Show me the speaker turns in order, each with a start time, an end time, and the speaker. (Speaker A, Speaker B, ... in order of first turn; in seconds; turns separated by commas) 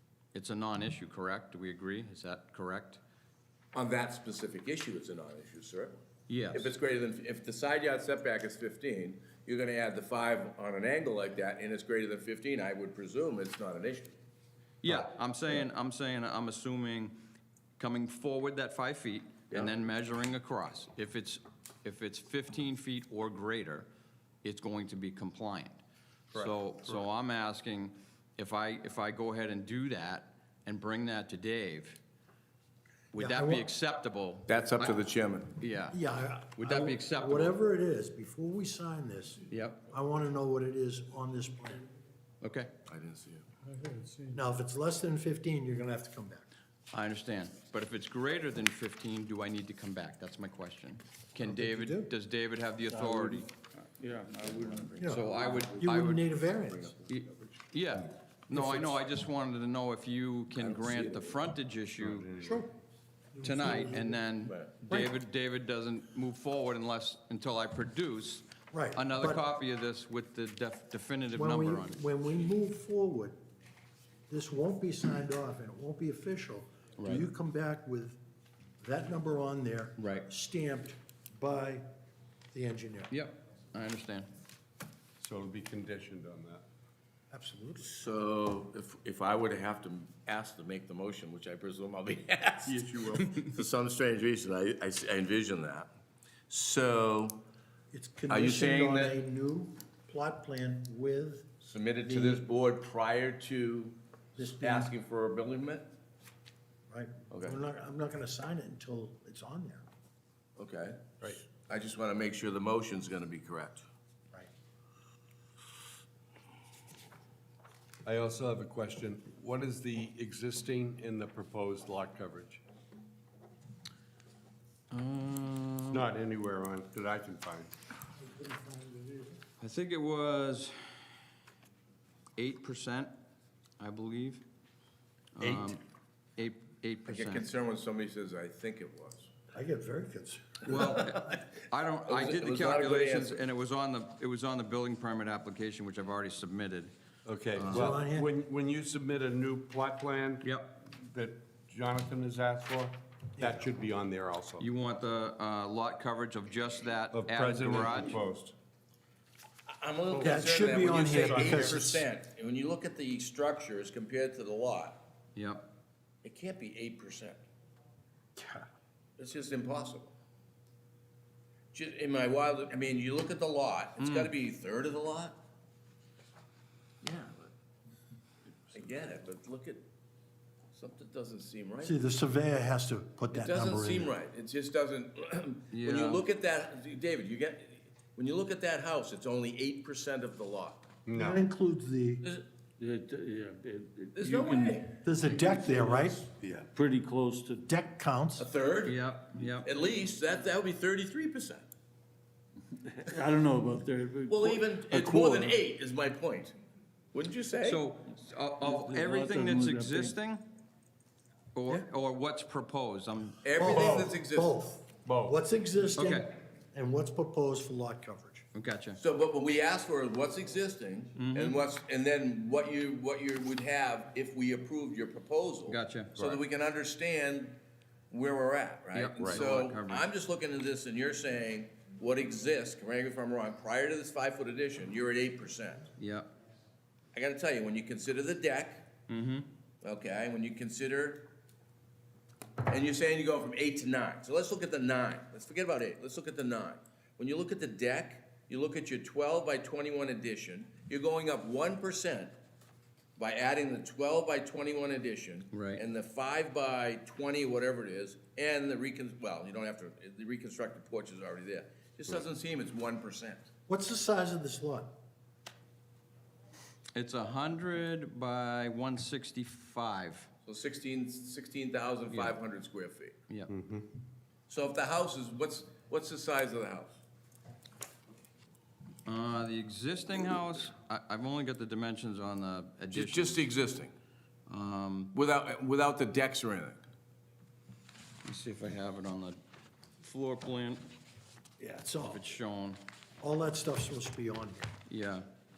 Speaker A: 0.3-3.0, Speaker B: 3.7-6.0, Speaker A: 6.3-6.7, Speaker B: 6.5-14.1, Speaker A: 14.8-17.1, Speaker A: 17.8-23.9, Speaker A: 24.4-25.8, Speaker A: 26.3-32.0, Speaker A: 33.1-35.0, Speaker C: 33.1-33.7, Speaker B: 34.5-35.5, Speaker A: 35.6-36.0, Speaker C: 35.9-41.8, Speaker A: 36.5-37.5, Speaker A: 39.5-39.8, Speaker A: 42.4-42.7, Speaker B: 42.9-43.5, Speaker D: 43.7-44.4, Speaker C: 44.3-46.5, Speaker A: 46.9-53.5, Speaker C: 51.4-52.1, Speaker D: 52.9-55.8, Speaker B: 54.4-55.1, Speaker C: 55.0-57.0, Speaker A: 55.1-56.3, Speaker B: 56.5-57.5, Speaker A: 57.1-62.3, Speaker C: 58.5-59.0, Speaker B: 60.5-61.3, Speaker E: 62.0-62.7, Speaker C: 62.4-62.7, Speaker C: 63.3-64.2, Speaker A: 63.4-72.0, Speaker B: 64.5-64.7, Speaker C: 68.7-69.4, Speaker C: 71.3-73.4, Speaker C: 74.3-78.2, Speaker A: 77.0-77.3, Speaker C: 78.8-81.8, Speaker A: 80.0-80.2, Speaker C: 82.5-83.1, Speaker A: 83.1-84.3, Speaker E: 85.2-86.7, Speaker C: 87.3-87.9, Speaker B: 87.8-95.9, Speaker B: 96.5-97.4, Speaker C: 97.9-101.5, Speaker B: 98.3-99.2, Speaker B: 101.6-105.9, Speaker C: 102.0-102.4, Speaker C: 104.4-104.9, Speaker C: 106.9-109.8, Speaker B: 107.3-107.6, Speaker B: 110.6-113.8, Speaker E: 118.0-122.6, Speaker A: 124.9-126.0, Speaker E: 125.9-127.7, Speaker C: 128.3-129.3, Speaker A: 129.6-130.7, Speaker A: 132.4-133.1, Speaker A: 133.8-134.4, Speaker A: 135.3-135.8, Speaker B: 135.4-135.7, Speaker A: 136.4-137.4, Speaker B: 137.1-139.3, Speaker C: 139.5-141.2, Speaker A: 140.7-146.9, Speaker B: 142.1-143.4, Speaker E: 147.2-154.7, Speaker A: 147.5-147.9, Speaker C: 147.7-148.3, Speaker A: 150.4-150.7, Speaker C: 153.4-153.7, Speaker A: 154.6-158.2, Speaker E: 157.1-158.5, Speaker B: 159.7-165.0, Speaker C: 160.2-162.0, Speaker E: 161.0-161.7, Speaker A: 165.3-165.7, Speaker B: 166.2-167.4, Speaker C: 168.3-168.6, Speaker B: 169.2-170.1, Speaker B: 171.7-175.4, Speaker A: 174.0-174.3, Speaker B: 177.0-177.5, Speaker B: 178.7-179.8, Speaker B: 180.7-182.0, Speaker C: 181.8-184.1, Speaker B: 183.3-190.9, Speaker A: 185.7-186.2, Speaker E: 191.1-191.4, Speaker C: 191.1-192.2, Speaker D: 192.8-194.8, Speaker B: 194.1-195.0, Speaker C: 195.0-196.3, Speaker D: 195.7-196.1, Speaker E: 196.4-196.7, Speaker D: 196.7-197.7, Speaker C: 197.7-198.4, Speaker B: 198.4-199.0, Speaker A: 198.8-199.7, Speaker B: 199.6-201.7, Speaker D: 203.0-205.6, Speaker B: 204.3-206.6, Speaker B: 207.1-207.8, Speaker A: 207.6-210.4, Speaker D: 208.6-210.2, Speaker A: 211.5-213.5, Speaker B: 213.4-214.5, Speaker C: 213.6-218.4, Speaker E: 215.0-215.4, Speaker A: 215.9-216.3, Speaker A: 218.5-219.0, Speaker B: 219.0-227.6, Speaker A: 221.2-221.6, Speaker A: 225.7-226.3, Speaker B: 228.1-235.9, Speaker A: 228.9-230.0, Speaker E: 229.2-229.5, Speaker A: 236.0-236.3, Speaker B: 237.1-238.9, Speaker A: 239.1-239.5, Speaker B: 239.8-241.3, Speaker B: 242.7-252.3, Speaker B: 253.2-263.4, Speaker A: 255.5-255.8, Speaker C: 263.7-264.9, Speaker A: 266.9-270.3, Speaker B: 270.4-273.1, Speaker E: 273.5-273.9, Speaker B: 274.5-276.9, Speaker A: 279.1-283.4, Speaker B: 282.9-283.9, Speaker A: 284.5-285.1, Speaker B: 285.1-286.9, Speaker A: 288.2-289.4, Speaker A: 290.0-290.8, Speaker C: 291.6-292.2, Speaker A: 292.0-292.8, Speaker C: 293.2-294.7, Speaker A: 294.9-295.3